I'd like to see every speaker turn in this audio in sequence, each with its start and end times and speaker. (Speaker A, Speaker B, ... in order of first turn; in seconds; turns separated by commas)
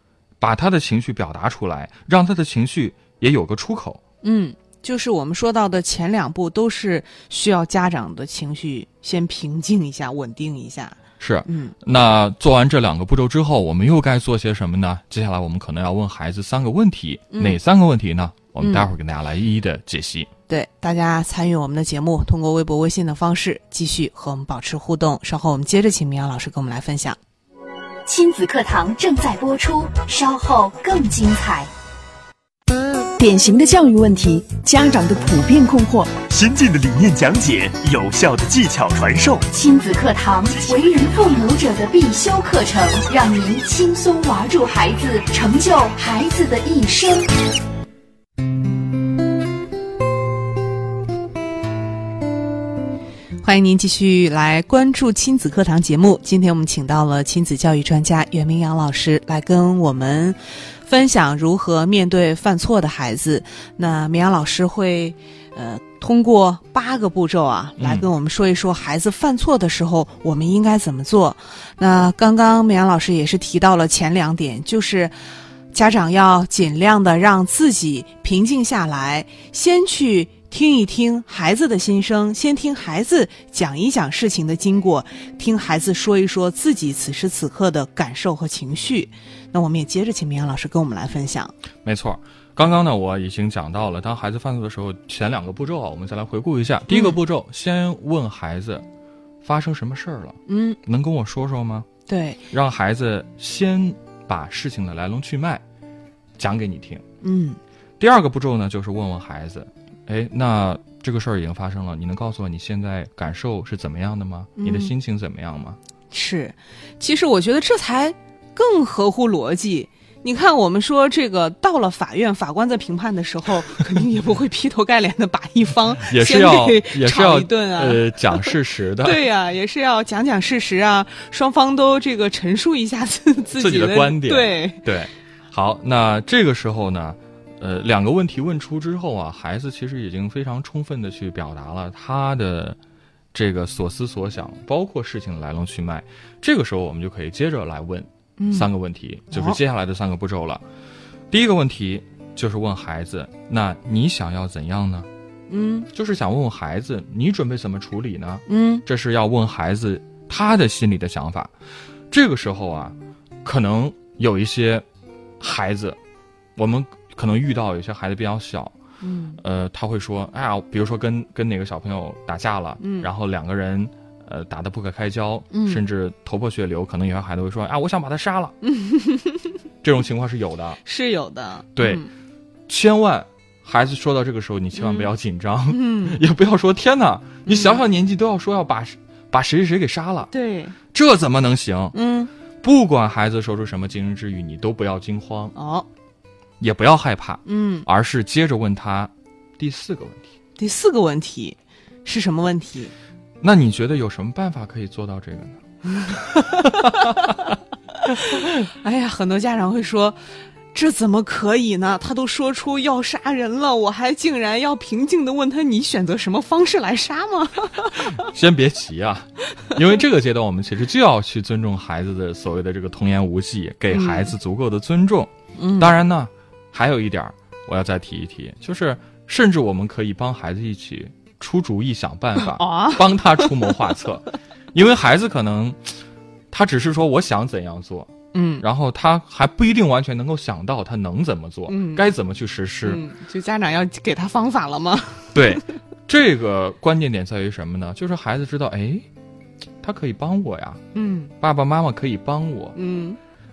Speaker A: 0.4-4.0, Speaker B: 4.2-11.7, Speaker A: 11.2-20.3, Speaker B: 17.3-17.6, Speaker B: 18.6-18.9, Speaker B: 20.5-27.2, Speaker C: 28.1-31.7, Speaker D: 33.2-36.1, Speaker E: 36.3-39.4, Speaker C: 39.5-47.3, Speaker B: 53.4-75.1, Speaker A: 67.8-68.1, Speaker B: 75.7-91.5, Speaker A: 91.8-98.8, Speaker B: 96.9-97.2, Speaker A: 99.4-101.9, Speaker B: 100.5-100.8, Speaker B: 102.1-102.4, Speaker A: 102.5-105.6, Speaker A: 106.4-107.0, Speaker B: 107.2-107.6, Speaker A: 108.0-115.8, Speaker B: 114.6-114.9, Speaker B: 116.1-134.8, Speaker A: 126.0-129.2, Speaker A: 133.6-142.8, Speaker A: 143.3-150.6, Speaker B: 148.4-148.7, Speaker B: 149.3-149.6, Speaker A: 151.3-155.1, Speaker B: 155.5-155.9, Speaker A: 155.9-161.5, Speaker B: 158.5-158.8, Speaker A: 162.1-164.8, Speaker A: 165.4-166.0, Speaker A: 166.6-168.7, Speaker B: 169.0-169.4, Speaker A: 169.4-178.5, Speaker B: 172.8-173.1, Speaker B: 175.5-175.8, Speaker B: 178.6-179.5, Speaker A: 179.8-180.8, Speaker B: 180.8-182.1, Speaker A: 181.7-182.0, Speaker A: 182.7-190.3, Speaker B: 184.8-185.1, Speaker B: 185.7-186.2, Speaker B: 187.4-187.8, Speaker B: 190.3-190.8, Speaker A: 190.9-191.9, Speaker B: 191.9-192.3, Speaker A: 192.6-195.5, Speaker B: 195.5-195.8, Speaker A: 196.6-200.3, Speaker B: 197.4-197.9, Speaker B: 200.6-202.9, Speaker A: 203.4-207.5, Speaker B: 205.9-207.3, Speaker B: 208.0-210.2, Speaker B: 210.7-218.2, Speaker A: 218.1-236.0, Speaker B: 223.9-224.3, Speaker B: 225.6-226.0, Speaker B: 232.5-233.7, Speaker A: 236.5-243.0, Speaker B: 238.3-238.6, Speaker B: 241.7-242.1, Speaker B: 242.8-245.6, Speaker A: 245.3-249.1, Speaker A: 249.8-250.8, Speaker B: 250.9-251.3, Speaker A: 251.4-252.8, Speaker B: 252.7-253.2